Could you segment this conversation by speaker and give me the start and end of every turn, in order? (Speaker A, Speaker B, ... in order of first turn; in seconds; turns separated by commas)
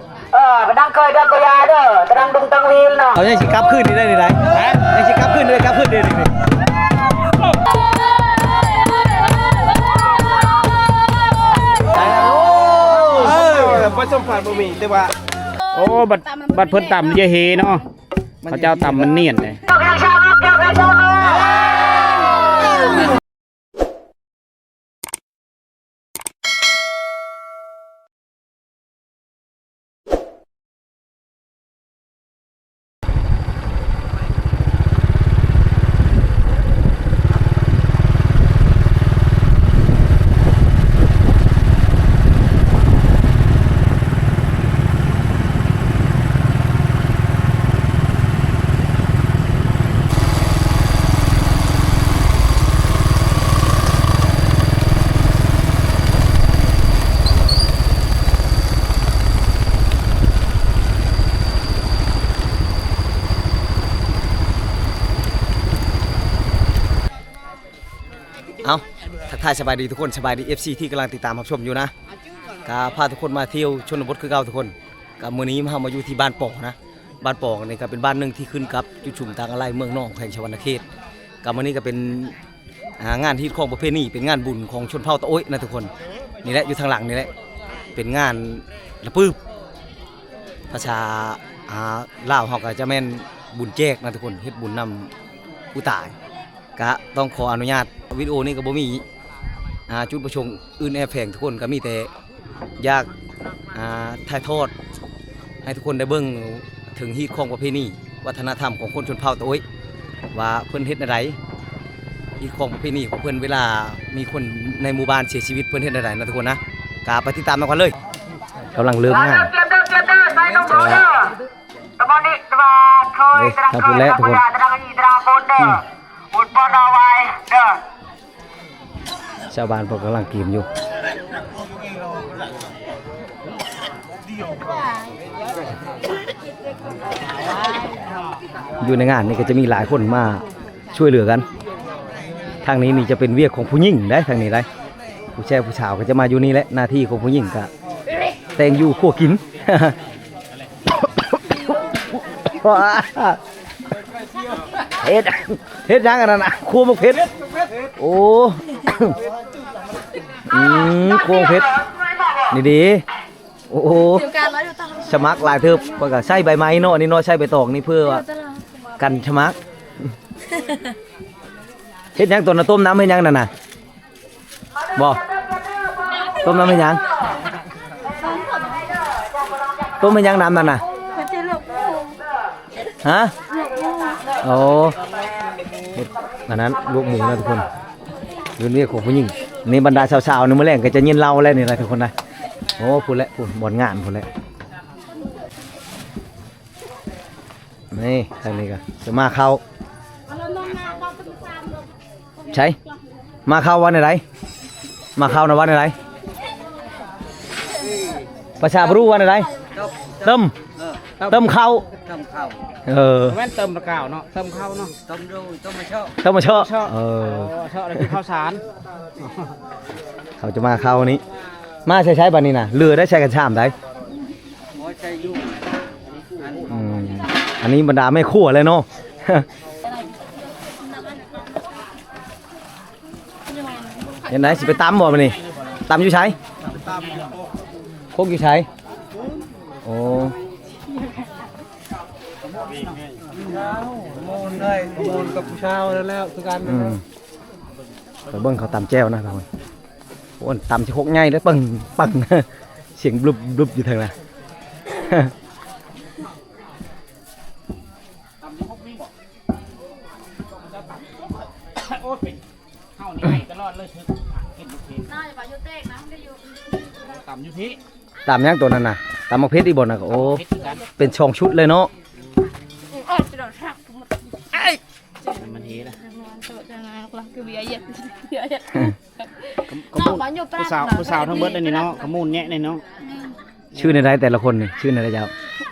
Speaker A: 0.3-3.2, Speaker B: 3.1-6.3, Speaker C: 4.5-4.8, Speaker B: 11.9-13.4, Speaker D: 13.1-15.1, Speaker C: 15.7-17.8, Speaker E: 16.1-17.1, Speaker B: 18.4-19.0, Speaker C: 18.5-19.6, Speaker A: 19.7-21.5, Speaker B: 68.6-71.9, Speaker B: 72.6-80.8, Speaker B: 81.4-82.3, Speaker B: 83.0-85.9, Speaker B: 86.4-87.3, Speaker B: 87.9-89.4, Speaker B: 90.7-95.1, Speaker B: 95.7-96.1, Speaker B: 96.8-99.0, Speaker B: 99.9-102.1, Speaker B: 102.8-103.1, Speaker B: 103.7-104.7, Speaker B: 105.6-109.6, Speaker B: 110.3-111.4, Speaker B: 112.4-118.0, Speaker B: 118.7-119.5, Speaker A: 119.1-121.3, Speaker B: 120.7-121.0, Speaker A: 122.0-127.8, Speaker B: 123.3-124.4, Speaker B: 129.5-130.7, Speaker B: 138.8-141.4, Speaker B: 142.6-144.7, Speaker B: 145.3-147.7, Speaker B: 148.5-149.9, Speaker B: 151.0-151.5, Speaker B: 152.4-153.4, Speaker B: 155.0-157.3, Speaker B: 158.0-159.2, Speaker B: 160.5-161.7, Speaker B: 162.5-163.0, Speaker B: 163.7-164.3, Speaker E: 164.1-165.1, Speaker B: 165.0-168.2, Speaker E: 168.1-168.6, Speaker B: 169.0-169.6, Speaker B: 172.1-173.5, Speaker B: 176.4-177.0, Speaker E: 178.2-178.9, Speaker B: 180.0-180.8, Speaker E: 181.1-182.2, Speaker B: 183.0-183.3, Speaker E: 183.5-184.2, Speaker B: 184.4-185.0, Speaker B: 185.9-187.7, Speaker B: 188.6-192.1, Speaker B: 192.8-194.3, Speaker B: 197.9-199.6, Speaker E: 200.3-201.5, Speaker B: 202.5-202.8, Speaker B: 203.4-204.2, Speaker B: 205.2-205.9, Speaker B: 208.6-209.5, Speaker B: 210.2-210.5, Speaker B: 211.2-211.8, Speaker B: 212.9-213.4, Speaker C: 213.3-214.9, Speaker B: 216.2-217.5, Speaker C: 216.4-218.6, Speaker B: 220.4-221.2, Speaker B: 221.8-223.7, Speaker B: 226.7-229.4, Speaker E: 233.5-234.7, Speaker B: 234.3-236.3, Speaker B: 238.1-238.7, Speaker B: 239.8-240.3, Speaker B: 246.5-247.0, Speaker B: 248.3-249.4, Speaker B: 250.4-254.1, Speaker B: 254.9-255.3, Speaker C: 258.5-259.1, Speaker C: 261.8-262.3, Speaker C: 263.0-265.0, Speaker E: 265.1-266.4, Speaker C: 267.1-267.8, Speaker B: 268.2-270.4, Speaker C: 270.3-270.8, Speaker B: 271.0-271.9, Speaker E: 272.9-274.2, Speaker C: 275.4-276.0, Speaker E: 276.0-278.9, Speaker C: 279.7-282.8, Speaker E: 279.9-281.9, Speaker E: 283.0-283.3, Speaker B: 283.8-285.3